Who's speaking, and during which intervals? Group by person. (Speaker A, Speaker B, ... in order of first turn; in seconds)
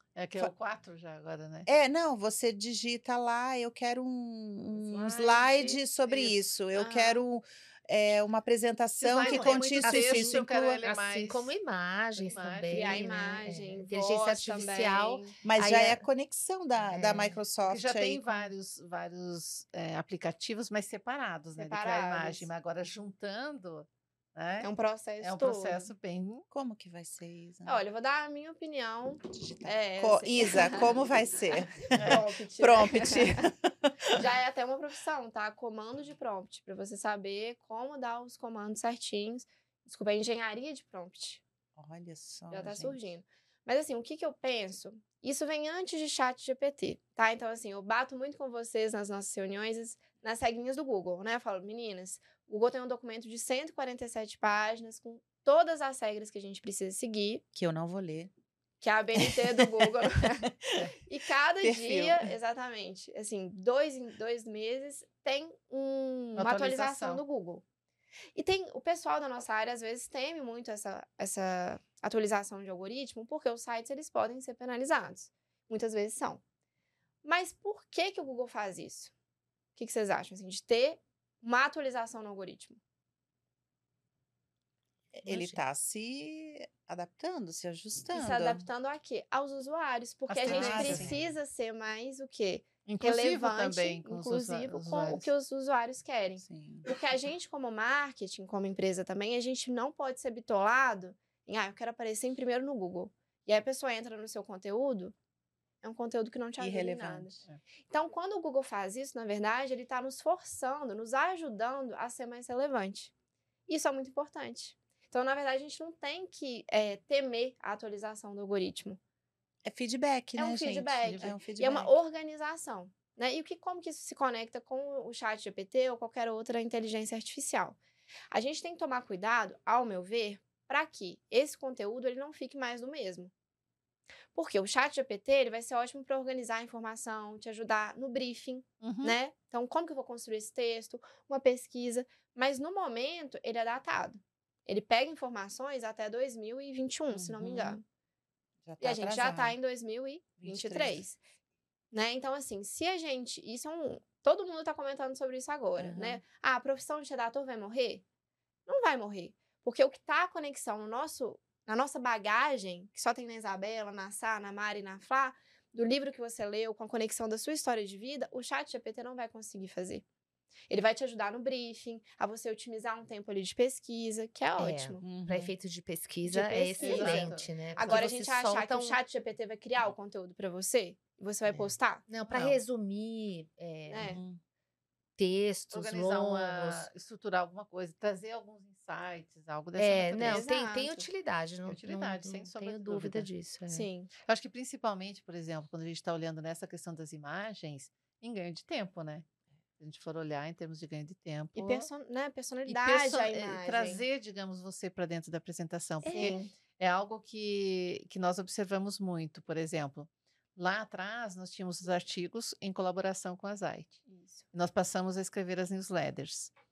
Speaker A: 0.1-1.7, 6.1-6.3, 9.0-11.5, 12.2-13.1, 17.6-26.4, 66.3-67.2, 85.2-85.6, 90.3-91.2, 92.8-95.3, 138.8-139.2, 176.8-177.5, 182.3-182.6, 185.7-190.4, 191.6-193.3, 194.2-199.3, 199.8-201.9, 202.7-214.0, 214.5-216.5
Speaker B: 1.7-10.8, 15.4-18.2, 26.5-27.8, 29.3-34.2, 41.8-43.0, 57.5-58.3, 59.1-59.9, 60.5-60.7, 61.6-62.3, 85.1-88.7, 90.4-91.2, 96.4-96.9, 106.6-107.4, 119.7-122.0, 147.1-147.7, 148.7-149.6, 150.4-151.0, 155.8-156.2, 175.0-175.5, 184.0-184.4
Speaker C: 4.8-5.8, 6.7-7.2, 12.7-15.3, 21.6-22.5, 24.6-25.9, 27.6-31.0, 31.8-33.4, 34.1-41.4, 42.5-57.4, 58.8-60.5, 61.0-67.6, 68.3-76.4, 77.2-79.1, 79.8-82.8, 88.1-105.1, 105.8-107.3, 107.9-113.1, 113.7-119.0, 120.4-127.8, 128.3-133.3, 134.3-147.8, 148.8-151.2, 151.9-158.0, 158.7-170.0, 170.7-175.0, 176.3-182.1, 183.9-184.2, 190.2-191.1, 193.7-194.1, 201.6-204.0, 206.1-206.5, 214.1-214.4
Speaker D: 9.2-16.0, 16.8-17.4, 90.7-91.1, 174.6-179.0, 182.1-184.2, 185.2-186.9, 189.8-193.9, 206.0-206.3